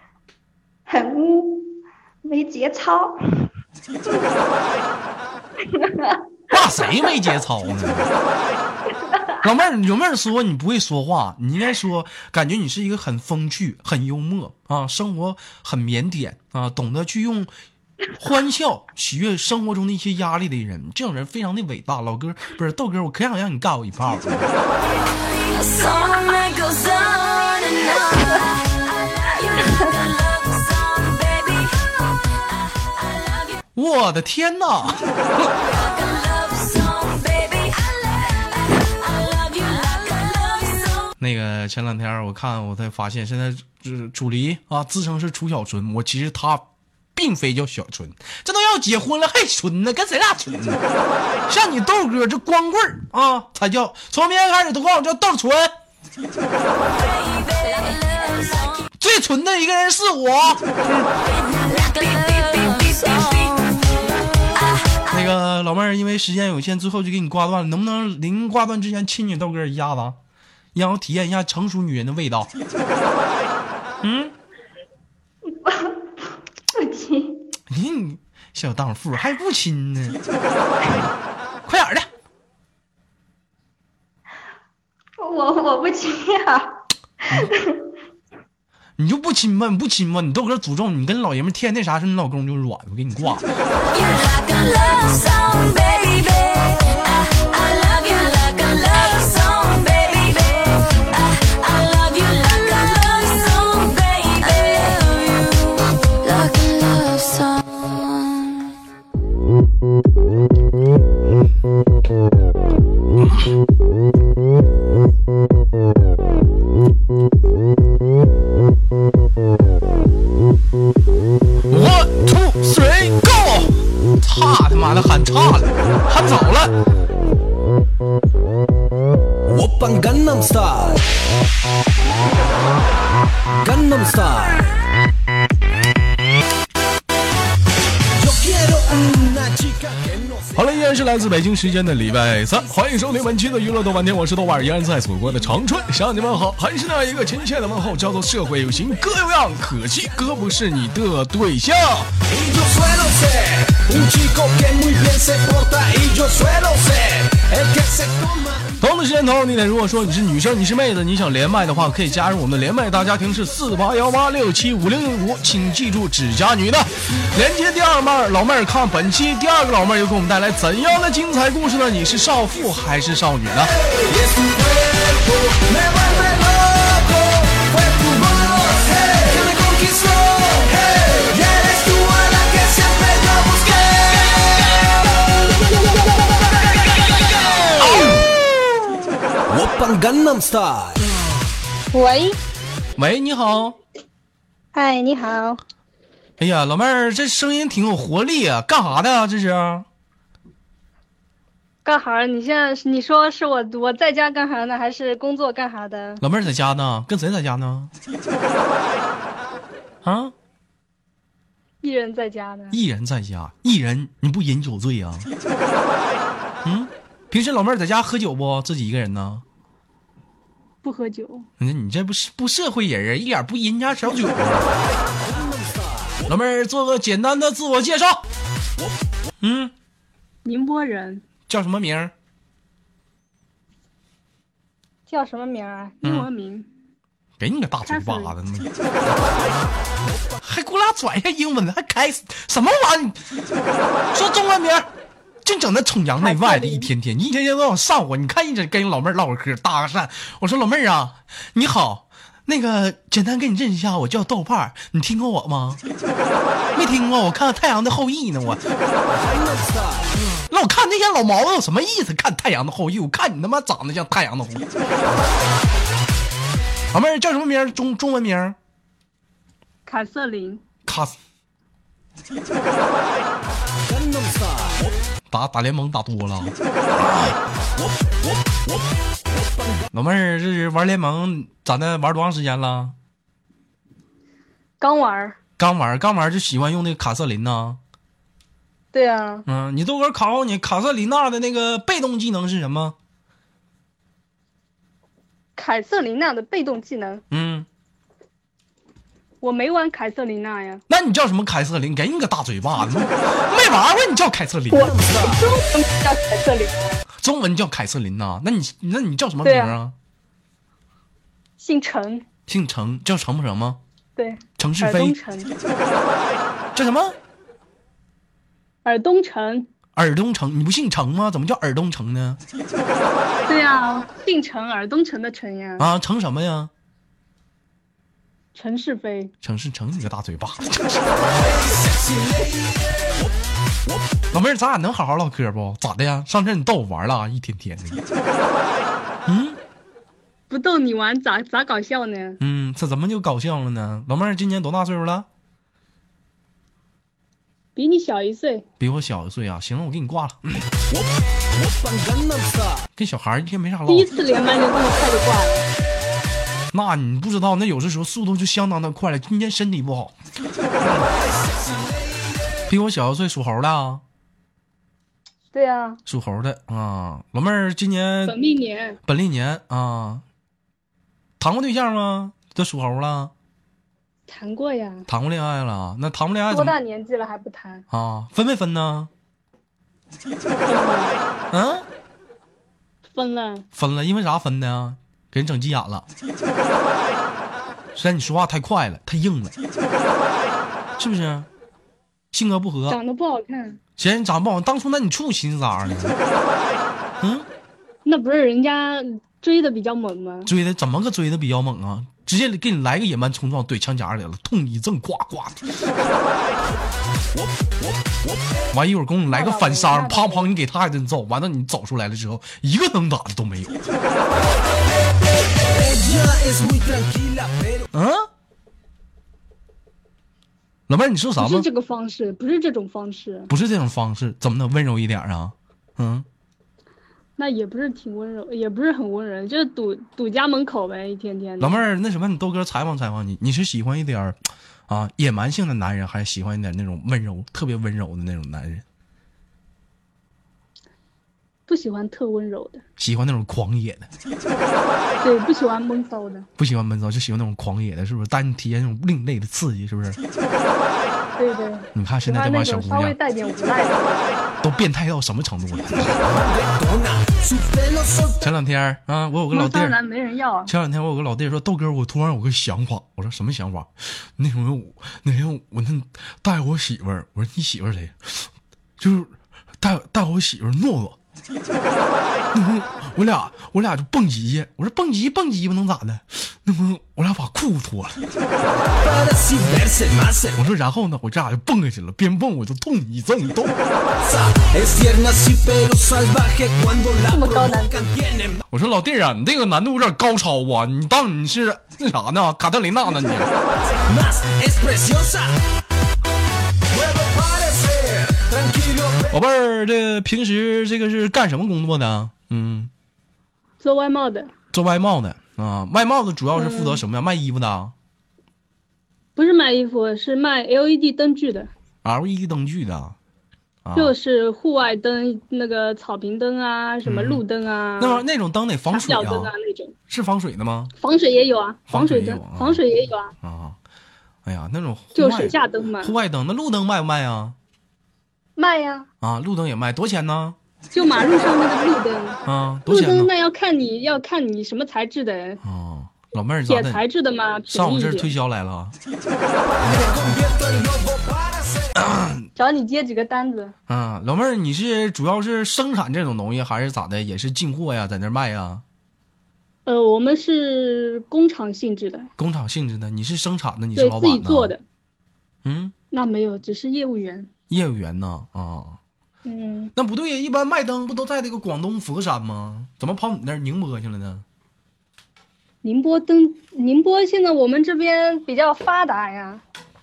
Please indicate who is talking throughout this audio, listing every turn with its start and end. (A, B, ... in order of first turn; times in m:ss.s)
0:00.9-0:03.5 A
0:05.7-0:07.1 A
0:06.5-0:08.1 B
0:09.0-0:09.4 A
0:09.4-0:17.5 B
0:18.2-0:24.5 B
0:24.8-0:33.6 C
0:33.8-0:35.5 B
0:35.6-0:41.1 C
0:41.2-0:50.8 B
0:51.5-0:55.7 B
0:56.8-0:58.9 C
0:59.0-1:01.1 B
1:01.2-1:05.1 C
1:05.1-1:10.2 B
1:10.7-1:12.5 B
1:14.0-1:14.3 B
1:15.4-1:17.5 A
1:17.7-1:20.2 B
1:21.6-1:22.1 B
1:25.2-1:27.9 A
1:29.0-1:33.5 B
1:33.8-1:48.7 C
2:01.7-2:06.8 B
2:09.4-2:11.0 D
2:13.5-2:14.7 D
2:18.2-2:20.6 D
2:20.5-2:32.1 B
2:32.2-2:38.8 D
2:38.8-2:53.7 B
2:53.8-3:05.6 D
3:07.1-3:08.1 D
3:07.8-3:08.1 B
3:09.5-3:11.0 D
3:11.9-3:12.4 E
3:13.0-3:13.8 B
3:14.7-3:15.6 E
3:16.4-3:19.9 B
3:21.8-3:26.2 E
3:26.2-3:27.9 B
3:30.0-3:30.3 B
3:31.8-3:32.8 E
3:32.7-3:35.3 B
3:36.6-3:39.4 B
3:40.8-3:41.5 E
3:41.6-3:44.7 B
3:45.2-3:46.3 D
3:46.3-3:48.2 B
3:49.4-3:49.7 B
3:50.4-3:51.2 E
3:51.5-3:52.1 B
3:55.1-3:56.7 E
3:56.0-3:56.3 B
3:57.4-3:58.7 B
3:57.8-3:58.3 E
4:00.4-4:03.2 B
4:04.1-4:04.9 B
4:05.4-4:15.8 B
4:06.2-4:06.9 E
4:16.7-4:18.6 B
4:19.1-4:20.1 D
4:20.5-4:24.6 B
4:26.9-4:28.6 B
4:29.8-4:30.6 E
4:30.8-4:31.2 B
4:33.8-4:34.9 D
4:35.3-4:37.4 B
4:37.8-4:39.8 D
4:39.9-4:42.9 B
4:44.8-4:45.4 E
4:45.6-4:47.8 B
4:48.9-4:49.4 E
4:49.5-4:53.0 B
4:55.6-4:57.2 E
4:57.3-4:57.7 B
4:59.4-5:00.8 E
5:00.9-5:04.9 B
5:04.7-5:07.0 E
5:04.7-5:05.5 D
5:07.2-5:09.9 B
5:09.4-5:09.8 E
5:11.6-5:12.2 E
5:12.5-5:13.8 B
5:14.2-5:15.5 E
5:14.6-5:15.2 B
5:16.7-5:17.2 B
5:18.8-5:19.7 E
5:20.0-5:22.4 B
5:23.5-5:25.9 E
5:25.8-5:26.7 B
5:28.5-5:29.3 E
5:29.4-5:31.3 B
5:31.3-5:33.3 D
5:34.3-5:38.0 B
5:39.2-5:39.6 B
5:40.5-5:42.4 E
5:42.4-5:45.3 B
5:47.8-5:48.6 E
5:48.8-5:50.6 B
5:50.9-5:52.8 D
5:53.0-5:54.1 B
5:53.9-5:55.7 E
5:56.7-6:00.1 B
6:01.5-6:02.2 D
6:02.7-6:04.0 B
6:05.5-6:06.0 E
6:06.1-6:08.4 B
6:08.2-6:09.0 E
6:09.0-6:10.2 B
6:11.4-6:13.3 B
6:14.3-6:15.1 E
6:15.1-6:16.8 B
6:16.5-6:17.8 E
6:17.9-6:19.1 B
6:20.6-6:21.2 E
6:21.5-6:21.8 B
6:23.1-6:23.6 E
6:23.7-6:26.1 B
6:27.9-6:29.6 B
6:31.0-6:31.5 B
6:32.3-6:33.0 B
6:32.9-6:33.8 E
6:34.0-6:36.2 B
6:37.2-6:37.5 B
6:38.0-6:40.5 E
6:40.4-6:45.7 B
6:47.4-6:48.5 D
6:48.7-6:53.8 B
6:49.3-6:50.5 E
6:54.6-6:57.8 D
6:57.9-6:58.3 B
7:00.9-7:01.7 B
7:01.4-7:03.5 E
7:03.5-7:06.3 B
7:07.4-7:11.8 E
7:11.6-7:14.4 B
7:14.9-7:18.8 B
7:21.7-7:22.8 E
7:23.0-7:24.1 B
7:25.2-7:26.5 E
7:26.6-7:30.2 B
7:31.4-7:34.4 E
7:31.9-7:33.2 B
7:34.6-7:36.2 B
7:36.2-7:38.4 D
7:38.4-7:40.0 B
7:39.5-7:40.7 E
7:40.7-7:51.2 B
7:52.5-7:58.2 B
7:58.8-8:00.6 D
8:00.6-8:03.8 B
8:04.2-8:08.6 D
8:07.3-8:08.0 E
8:08.7-8:13.5 B
8:14.0-8:15.7 D
8:16.9-8:19.3 D
8:19.3-8:22.9 B
8:23.8-8:24.5 E
8:24.7-8:27.9 B
8:26.5-8:27.0 E
8:29.4-8:31.7 E
8:32.0-8:33.2 B
8:33.8-8:34.1 B
8:33.9-8:38.2 E
8:37.0-8:37.4 B
8:38.0-8:39.5 B
8:38.9-8:39.9 E
8:40.1-8:40.9 B
8:41.0-8:43.3 E
8:41.9-8:42.8 B
8:43.4-8:43.8 B
8:44.4-8:47.6 B
8:45.1-8:46.2 E
8:48.6-8:49.1 E
8:49.2-8:50.6 B
8:50.9-8:55.6 E
8:52.4-8:53.3 B
8:55.6-8:57.0 B
8:56.7-8:58.3 E
8:57.7-8:59.0 B
8:59.8-9:01.9 D
8:59.9-9:00.2 E
9:02.0-9:02.5 B
9:02.6-9:03.7 E
9:03.9-9:08.8 B
9:09.8-9:12.3 E
9:12.4-9:14.7 B
9:14.0-9:14.8 E
9:15.6-9:15.9 B
9:16.1-9:17.5 E
9:17.7-9:19.0 B
9:19.4-9:19.9 E
9:19.9-9:24.4 B
9:25.8-9:29.6 E